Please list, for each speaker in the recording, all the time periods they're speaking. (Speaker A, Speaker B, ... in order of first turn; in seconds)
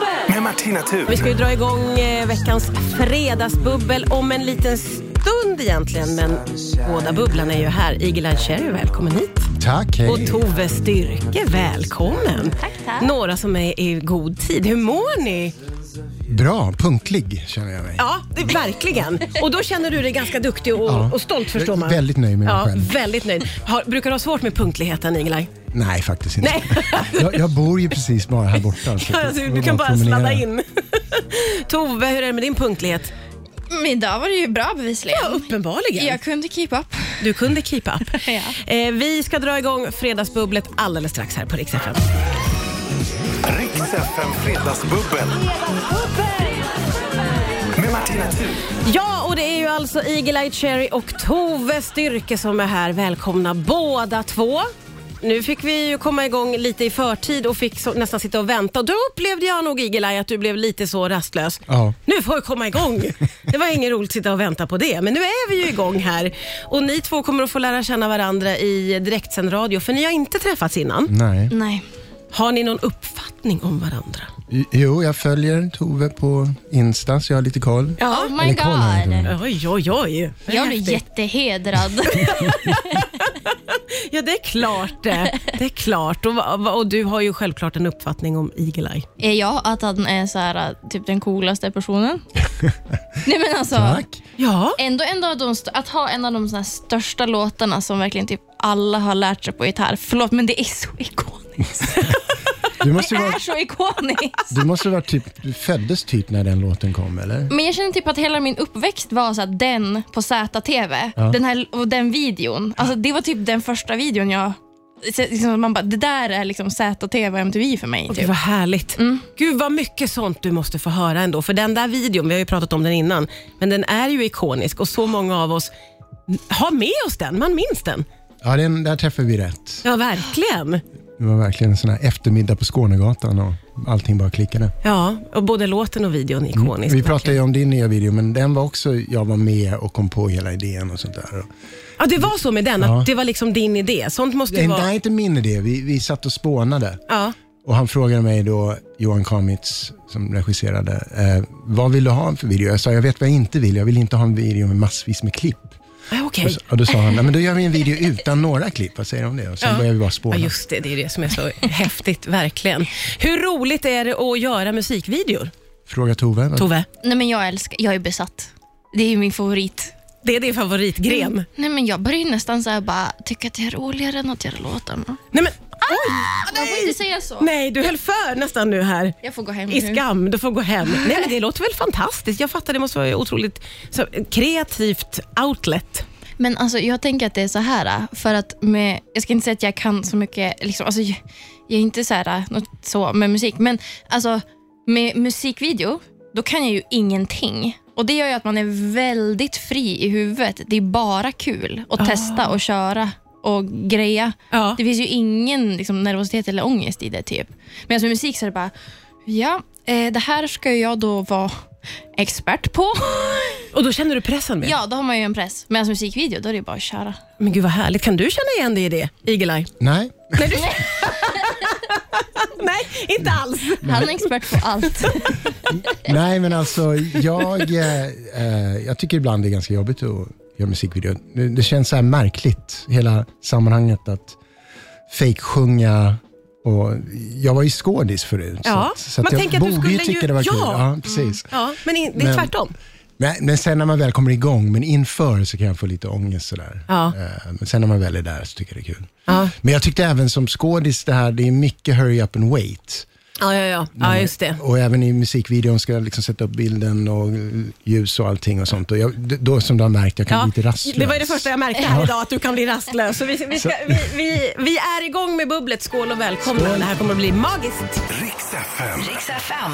Speaker A: 0.2-1.4, 43.4-45.5, 47.7-48.6, 268.1-269.5
Speaker B: 1.1-9.5, 10.1-15.5, 18.0-25.6, 26.4-27.4, 28.8-33.1, 35.1-36.2, 37.2-42.0, 48.8-54.7, 55.2-71.1, 72.3-74.3, 78.0-78.3, 79.2-81.0, 83.5-89.1, 94.4-94.8, 118.1-125.7, 126.3-128.1, 129.8-130.8, 134.8-137.4, 142.0-144.9, 147.1-147.3, 156.1-156.6, 159.6-165.5, 166.6-166.9, 170.2-171.5, 175.3-179.2, 179.7-186.1, 202.0-202.5, 204.5-204.8, 213.7-214.8, 217.4-219.7, 220.3-224.3, 238.7-240.9, 241.5-242.7, 246.9-247.2, 249.3-249.5, 253.4-254.6, 260.3-268.1
Speaker C: 9.6-10.4, 16.3-18.1, 20.9-22.9, 25.7-30.5, 61.7-62.0, 71.1-71.5, 74.5-79.3, 93.7-94.2, 102.8-103.4, 104.5-107.5, 128.4-129.8, 131.2-134.7, 136.6-141.5, 142.8-143.1, 144.5-147.0, 147.6-155.8, 156.4-160.5, 165.9-166.7, 219.8-220.6, 225.9-234.4, 235.1-241.5, 242.2-242.5, 243.2-253.1, 254.0-262.1, 263.5-264.0, 266.5-266.9
Speaker D: 12.4-13.1, 33.7-37.2, 38.1-38.6, 71.5-71.8, 78.1-79.3, 80.5-83.1, 89.2-92.2, 93.2-94.0, 94.8-102.2, 102.9-104.5, 107.5-118.3, 119.0-119.2, 167.0-169.9, 171.1-175.2, 175.9-177.5, 179.2-180.0, 186.4-208.7, 209.3-211.6, 212.2-213.7, 214.6-217.2, 220.9-221.7, 223.8-226.0, 241.1-241.4